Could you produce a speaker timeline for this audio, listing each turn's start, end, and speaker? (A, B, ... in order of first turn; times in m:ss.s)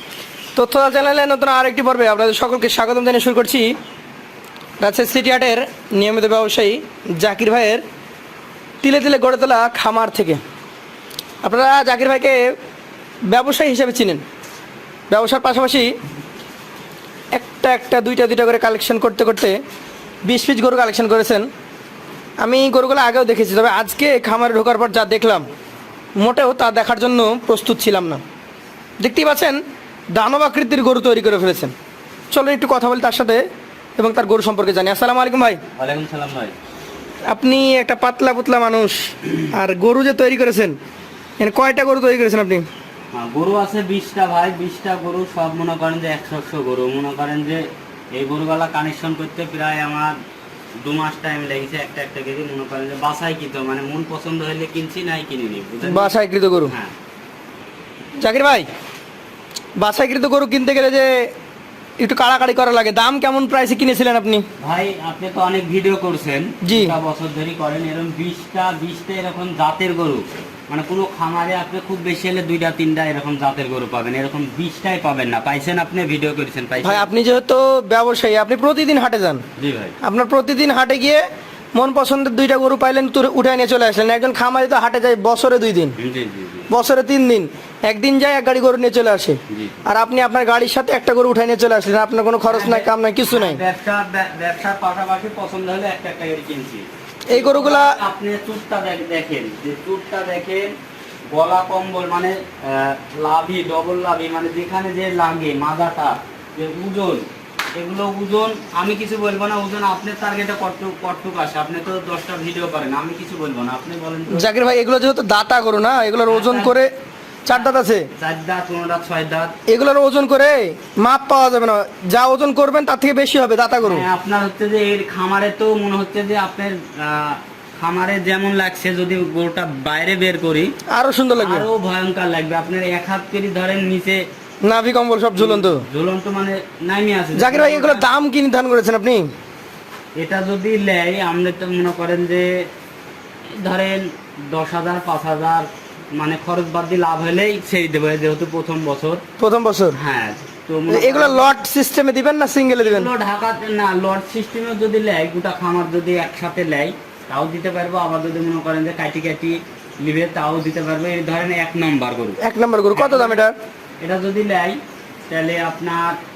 0:00.5-0:03.8 A
0:04.8-0:07.8 A
0:08.8-0:10.4 A
0:11.4-0:12.6 A
0:13.3-0:14.2 A
0:15.1-0:15.9 A
0:17.3-0:19.6 A
0:20.2-0:21.5 A
0:22.4-0:25.5 A
0:26.2-0:28.2 A
0:29.0-0:29.6 A
0:30.1-0:31.7 A
0:32.3-0:33.4 A
0:34.0-0:35.6 A
0:35.8-0:36.5 B
0:37.3-0:40.8 A
0:41.4-0:42.6 A
0:43.1-0:50.2 B
0:50.8-0:56.9 B
0:55.8-0:56.7 A
0:58.2-0:58.7 A
0:59.8-1:01.3 A
1:02.0-1:04.4 A
1:04.6-1:17.1 B
1:06.6-1:07.0 A
1:16.8-1:19.4 A
1:19.6-1:20.0 B
1:20.0-1:26.0 A
1:26.0-1:26.7 B
1:26.7-1:33.6 A
1:29.5-1:29.8 B
1:32.5-1:40.8 B
1:37.3-1:38.0 A
1:41.3-1:54.5 B
1:54.3-1:56.9 A
1:56.2-1:56.8 B
1:57.4-1:58.1 A
1:57.5-1:59.5 B
1:59.7-2:04.0 A
2:03.8-2:10.7 B
2:10.9-2:11.7 A
2:11.4-2:14.2 B
2:14.6-2:15.8 A
2:15.3-2:18.0 B
2:17.3-2:19.3 A
2:20.2-2:22.7 B
2:23.5-2:29.2 B
2:29.4-2:30.0 A
2:29.9-2:31.5 B
2:30.9-2:33.1 A
2:32.8-2:42.4 B
2:42.4-2:43.6 A
2:42.9-2:43.4 B
2:44.0-2:46.2 B